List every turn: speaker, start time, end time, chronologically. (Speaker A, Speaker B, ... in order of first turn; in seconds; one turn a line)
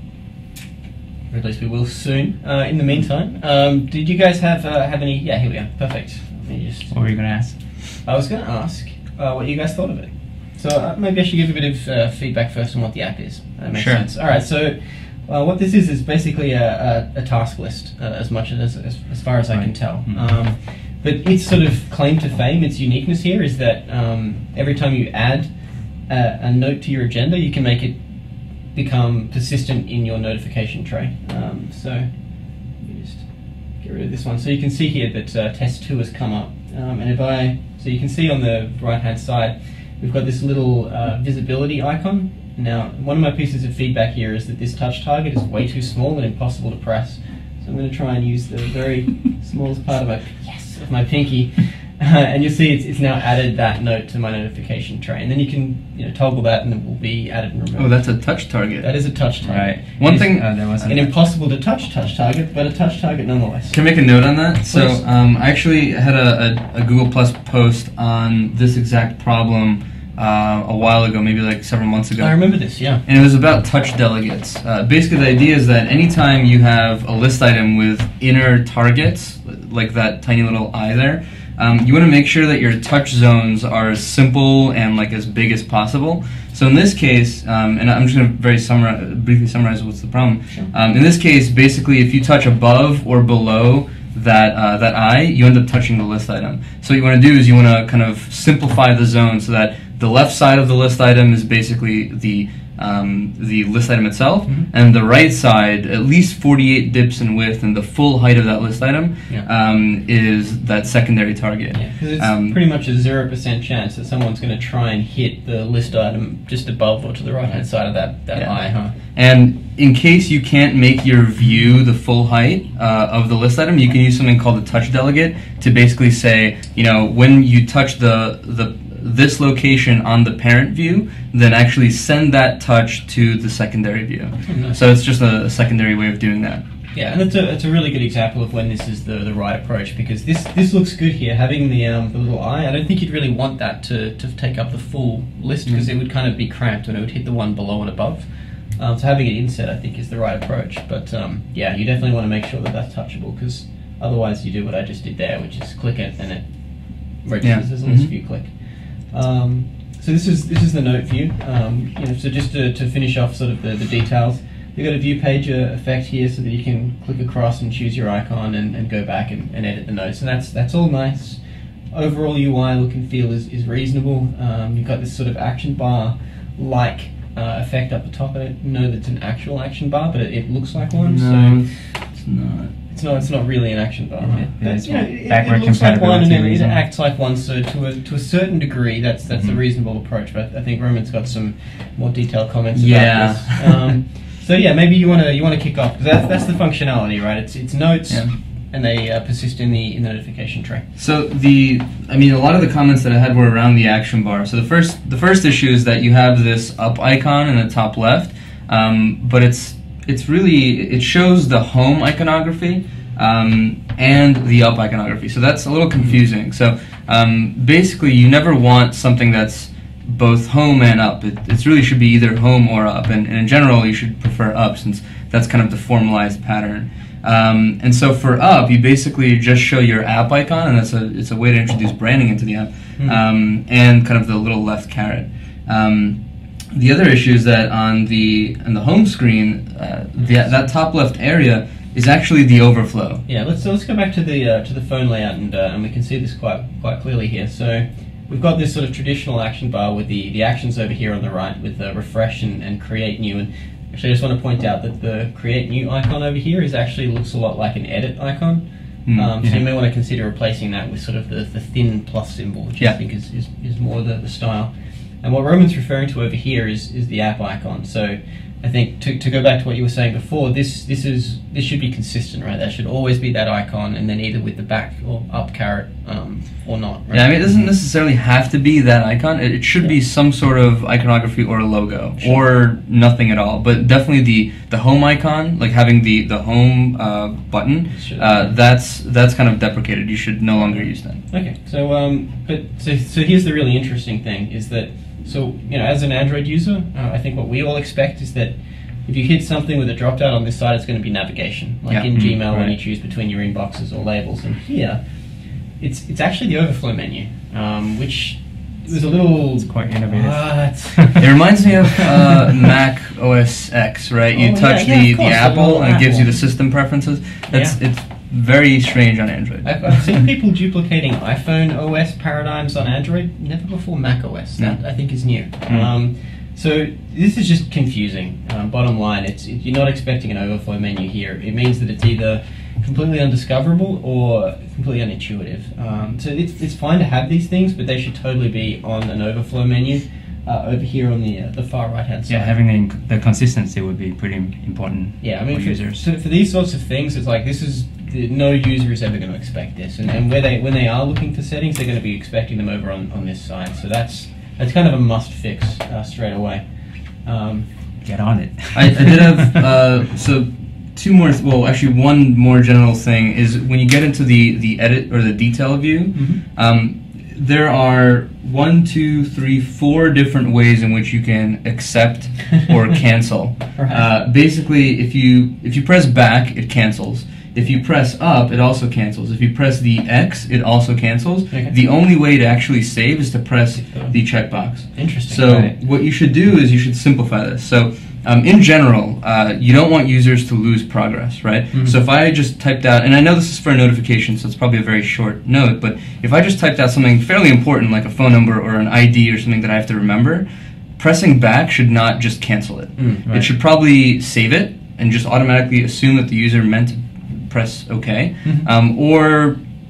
Speaker A: 1.3-7.0
Speaker B: 6.9-7.9
Speaker A: 8.0-58.2
Speaker C: 13.7-14.1
Speaker C: 57.8-58.9
Speaker A: 58.8-59.9
Speaker B: 59.4-61.1
Speaker C: 60.0-60.9
Speaker A: 60.8-63.8
Speaker C: 63.7-72.4
Speaker A: 64.7-65.0
Speaker A: 72.2-73.0
Speaker C: 73.0-112.6
Speaker A: 111.7-119.0
Speaker C: 118.3-136.6
Speaker A: 134.4-134.8
Speaker A: 136.9-181.7
Speaker C: 157.4-158.1
Speaker C: 181.0-182.8
Speaker A: 182.9-200.8
Speaker B: 184.2-186.8
Speaker C: 192.7-193.9
Speaker C: 198.1-198.3
Speaker C: 201.0-236.2
Speaker C: 236.7-243.2
Speaker A: 240.2-240.4
Speaker A: 243.3-277.4
Speaker C: 259.1-259.3
Speaker C: 277.1-291.2
Speaker A: 282.2-282.4
Speaker A: 287.9-288.5
Speaker A: 290.6-311.4
Speaker B: 302.1-302.8
Speaker B: 309.6-311.1
Speaker C: 311.2-320.1
Speaker A: 314.3-316.7
Speaker A: 317.5-317.8
Speaker A: 319.6-342.6
Speaker B: 342.3-346.0
Speaker A: 345.2-357.7
Speaker B: 358.0-359.3
Speaker C: 358.7-400.5
Speaker A: 366.1-366.4
Speaker A: 373.8-374.0
Speaker A: 383.8-385.5
Speaker B: 385.5-385.7
Speaker A: 391.7-392.0
Speaker C: 401.0-409.6
Speaker A: 403.0-403.2
Speaker B: 403.3-403.5
Speaker A: 408.4-408.7